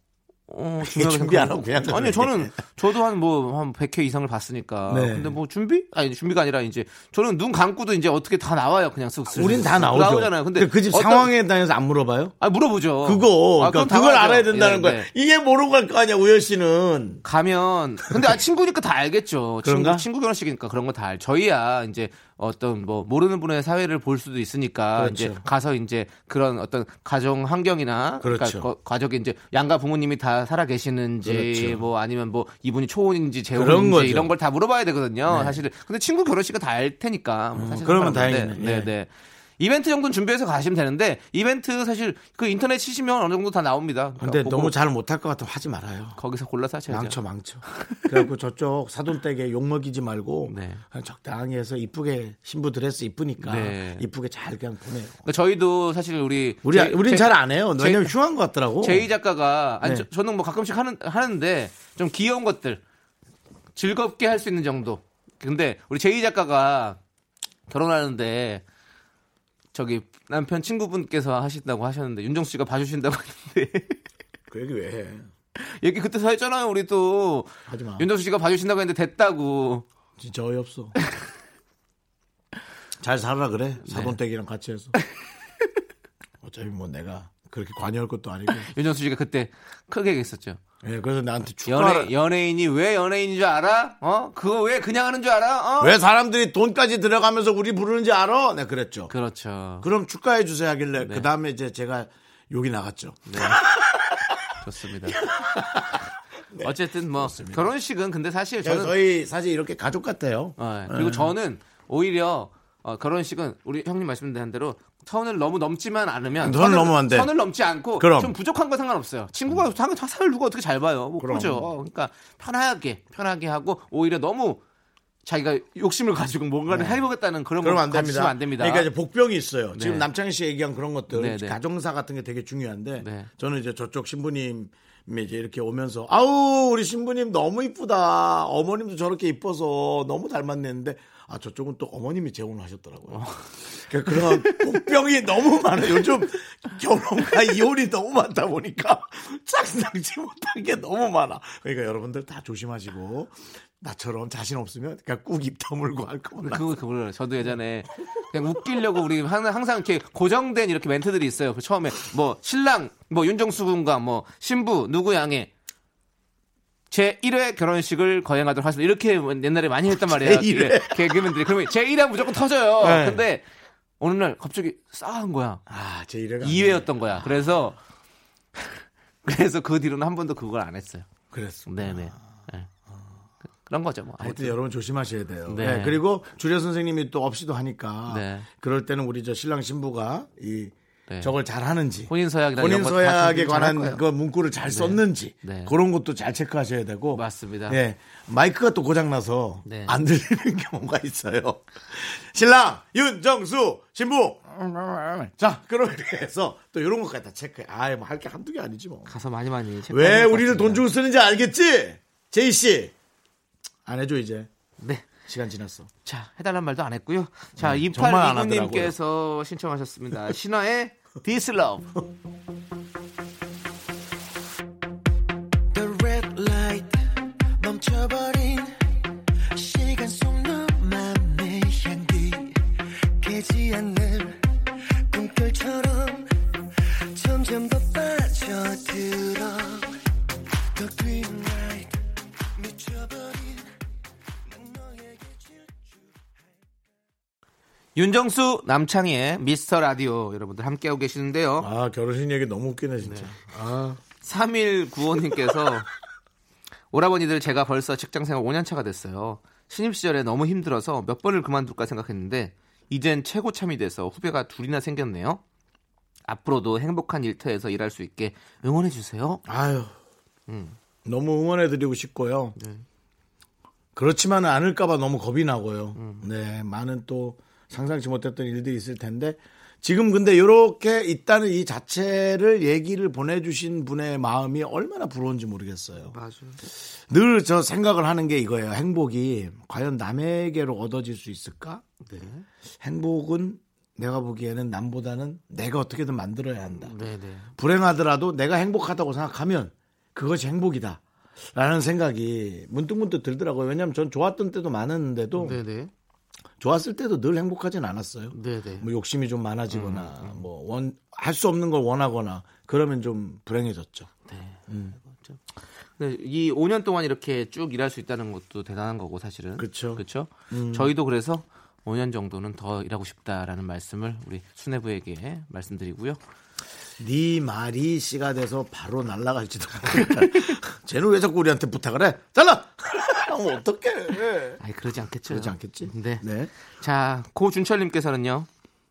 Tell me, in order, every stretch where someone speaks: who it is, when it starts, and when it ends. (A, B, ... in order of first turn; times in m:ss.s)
0:00.5-0:11.3 A
0:00.8-0:02.6 B
0:04.9-0:05.4 B
0:09.3-0:12.3 B
0:12.4-0:15.1 A
0:13.0-0:17.2 B
0:17.2-0:44.7 A
0:19.6-0:20.0 B
0:25.0-0:25.4 B
0:28.2-0:28.7 B
0:31.2-0:31.8 B
0:33.5-0:34.3 B
0:35.3-0:35.6 B
0:37.6-0:38.9 B
0:44.2-0:46.2 B
0:46.2-0:47.2 A
0:46.9-0:55.2 B
0:47.7-0:48.0 A
0:50.5-0:50.8 A
0:53.4-0:54.0 A
0:55.2-0:58.1 A
0:56.6-0:59.1 B
0:58.8-1:02.8 A
0:59.8-1:00.1 B
1:03.8-1:07.0 A
1:07.7-1:08.6 A
1:09.7-1:14.0 A
1:14.5-1:15.3 B
1:15.6-1:19.8 A
1:17.7-1:18.1 B
1:20.2-1:20.9 B
1:23.0-1:24.9 B
1:23.9-1:24.2 A
1:26.4-1:28.7 B
1:28.5-1:30.6 A
1:30.8-1:32.1 B
1:31.6-1:36.0 A
1:35.8-1:39.1 B
1:39.1-1:39.9 A
1:39.8-1:44.4 B
1:41.0-1:41.3 A
1:43.2-1:43.7 A
1:44.6-1:45.3 A
1:45.2-1:47.7 B
1:46.6-1:48.9 A
1:48.6-1:51.3 B
1:50.6-2:04.6 A
1:56.4-1:57.3 B
1:58.0-1:58.3 B
2:01.2-2:01.7 B
2:05.2-2:08.9 A
2:06.7-2:07.0 B
2:07.6-2:36.7 B
2:09.7-2:10.1 A
2:11.1-2:11.6 A
2:13.0-2:13.3 A
2:23.1-2:23.5 A
2:24.1-2:24.9 A
2:36.4-2:45.5 A
2:46.9-2:53.4 A
2:50.1-2:51.4 B
2:52.8-2:53.2 B
2:54.0-2:55.6 A
2:55.7-2:57.5 B
2:56.4-2:57.8 A
2:58.6-3:01.1 A
3:01.3-3:02.3 B
3:01.6-3:02.7 A
3:02.9-3:03.1 B
3:03.6-3:04.6 A
3:04.2-3:24.5 B
3:05.4-3:06.0 A
3:08.1-3:08.5 A
3:11.1-3:11.3 A
3:12.1-3:14.0 A
3:14.7-3:15.7 A
3:17.1-3:17.8 A
3:19.6-3:19.9 A
3:25.1-3:29.1 B
3:29.0-3:30.8 A
3:29.9-3:32.9 B
3:33.8-3:34.5 B
3:34.8-3:35.1 A
3:35.2-3:35.9 B
3:36.0-3:41.9 A
3:37.6-3:38.9 B
3:45.7-3:47.0 C
3:47.6-3:48.8 C
3:49.5-3:52.6 C
3:53.2-3:54.4 C
3:55.1-3:56.3 C
3:57.1-3:59.9 C
4:00.7-4:02.0 C
4:02.5-4:03.7 C
4:04.5-4:06.0 C
4:07.9-4:11.7 A
4:11.6-4:14.0 B
4:13.0-4:13.3 A
4:14.2-4:15.9 A
4:16.9-4:25.4 A
4:26.3-4:29.4 A
4:29.4-4:30.0 B
4:30.5-4:30.8 A
4:31.0-4:32.6 B
4:32.6-4:32.8 A
4:33.9-4:46.2 B
4:36.0-4:36.2 A
4:46.1-4:46.6 A
4:47.1-4:51.8 B
4:52.0-4:52.4 A
4:52.8-4:56.9 B
4:56.8-4:57.5 A
4:57.6-5:05.6 B
5:05.4-5:05.9 A
5:06.6-5:14.1 B
5:08.3-5:08.9 A
5:09.7-5:10.4 A
5:14.3-5:15.4 A
5:14.7-5:15.0 B
5:16.0-5:26.2 A
5:19.6-5:20.9 B
5:27.0-5:34.6 B
5:34.6-5:38.5 A
5:35.3-5:36.5 B